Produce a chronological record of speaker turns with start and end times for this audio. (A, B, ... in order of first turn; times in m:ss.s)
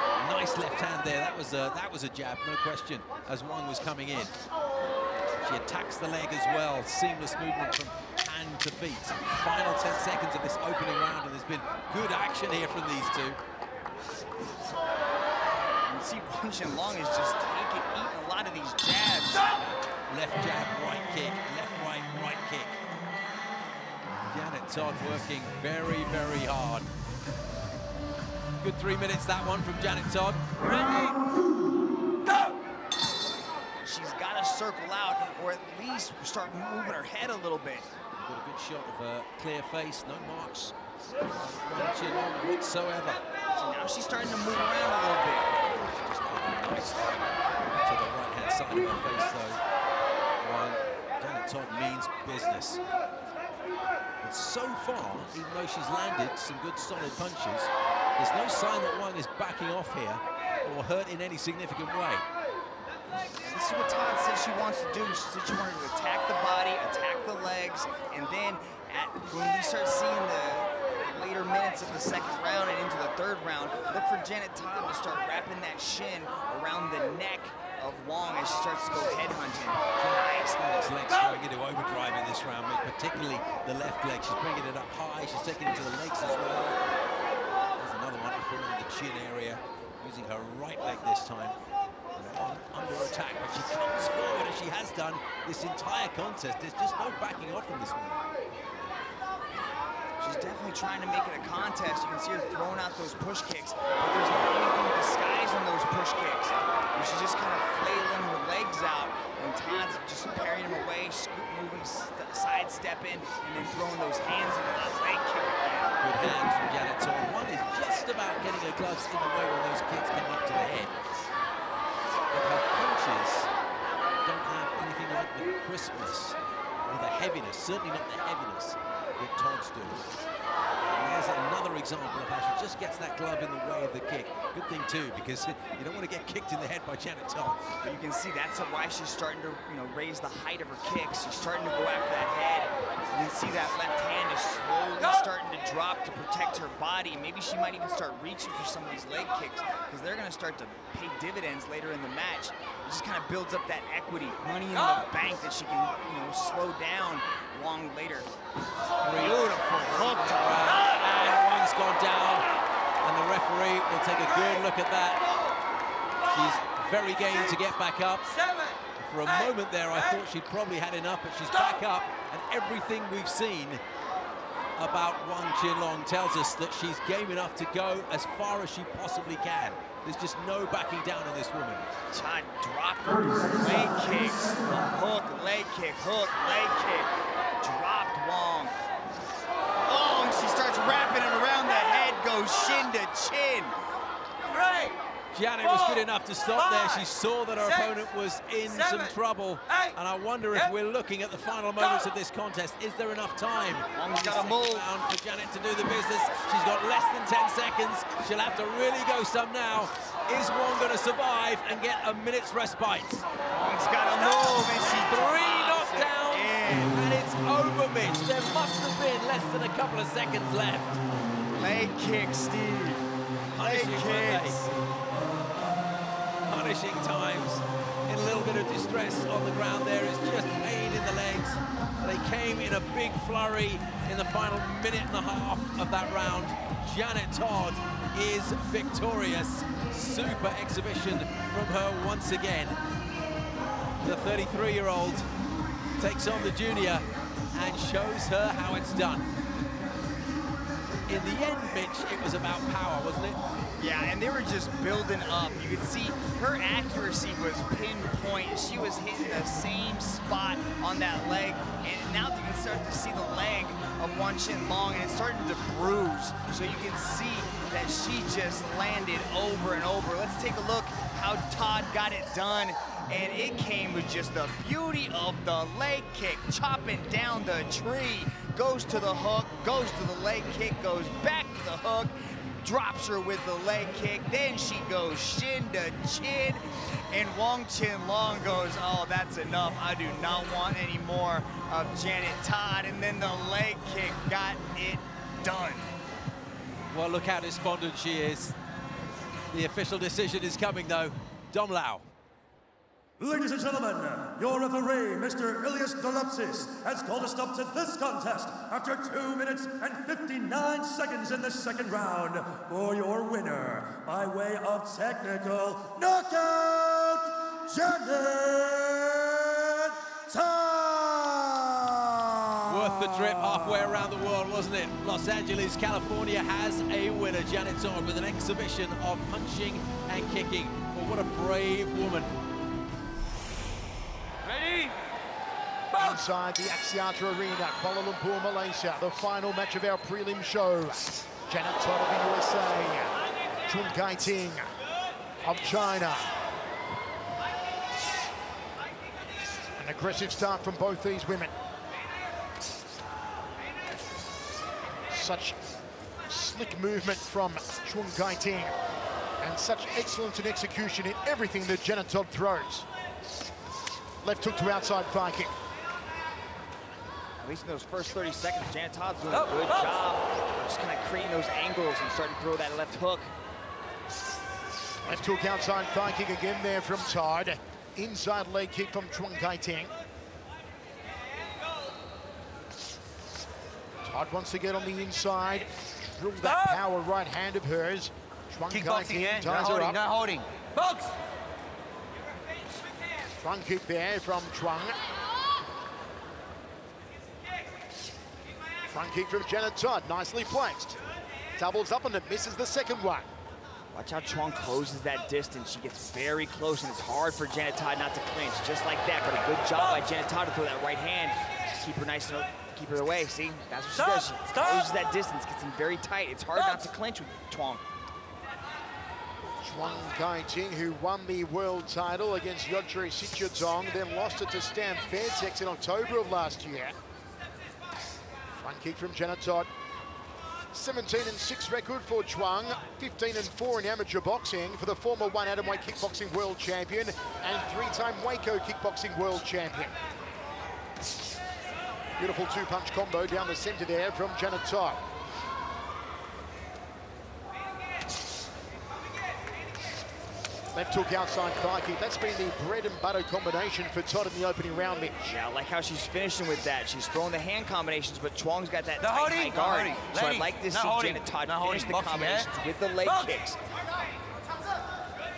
0:00.2-0:04.4 A
0:05.4-0:13.4 A
0:15.9-0:19.5 B
0:20.1-0:22.7 A
0:24.3-0:26.9 A
0:28.6-0:30.9 A
0:33.8-0:37.9 B
0:38.2-0:40.7 A
0:41.2-0:43.2 A
0:43.6-0:45.6 B
0:45.6-0:49.6 A
0:50.4-0:52.8 A
0:54.2-1:02.2 A
1:03.4-1:20.6 B
1:20.0-1:26.8 A
1:27.8-1:31.6 A
1:32.2-1:38.2 A
1:40.2-1:55.9 B
1:56.0-2:01.2 A
2:02.3-2:03.5 A
2:04.2-2:10.1 A
2:10.9-2:17.6 A
2:17.8-2:38.3 B
2:39.0-2:42.4 A
2:39.2-2:40.6 B
2:43.0-2:45.2 A
2:46.3-2:48.3 A
2:49.0-2:53.8 A
2:54.8-3:01.9 A
3:02.1-3:08.8 B
3:09.8-3:13.8 B
3:15.3-3:33.2 A
3:23.9-3:24.8 B
3:33.5-3:37.0 B
3:34.2-3:41.0 A
3:41.6-3:44.6 B
3:43.5-3:44.7 A
3:46.5-4:02.8 A
4:04.0-4:05.3 A
4:06.0-4:09.2 A
4:11.1-4:13.4 A
4:13.8-4:55.9 B
4:56.9-4:58.6 A
4:59.5-5:02.1 A
5:03.2-5:23.1 C
5:22.6-5:32.3 A
5:35.9-5:44.7 D
5:45.4-5:46.3 D
5:49.8-5:51.5 D
5:54.8-5:55.6 D
5:56.3-5:58.7 D
5:59.4-6:02.9 D
6:04.2-6:05.5 D
6:07.4-6:13.3 B
6:15.0-6:19.9 D
6:24.0-6:30.0 D
6:28.7-6:30.5 E
6:33.4-6:35.0 D
6:38.9-6:41.0 D
6:41.6-6:43.3 D
6:43.9-6:57.8 B
6:59.6-7:07.0 D
7:08.5-7:09.7 D
7:10.7-7:19.9 D
7:22.2-7:25.0 D
7:30.7-7:35.2 D
7:35.2-7:43.6 B
7:39.0-7:42.5 E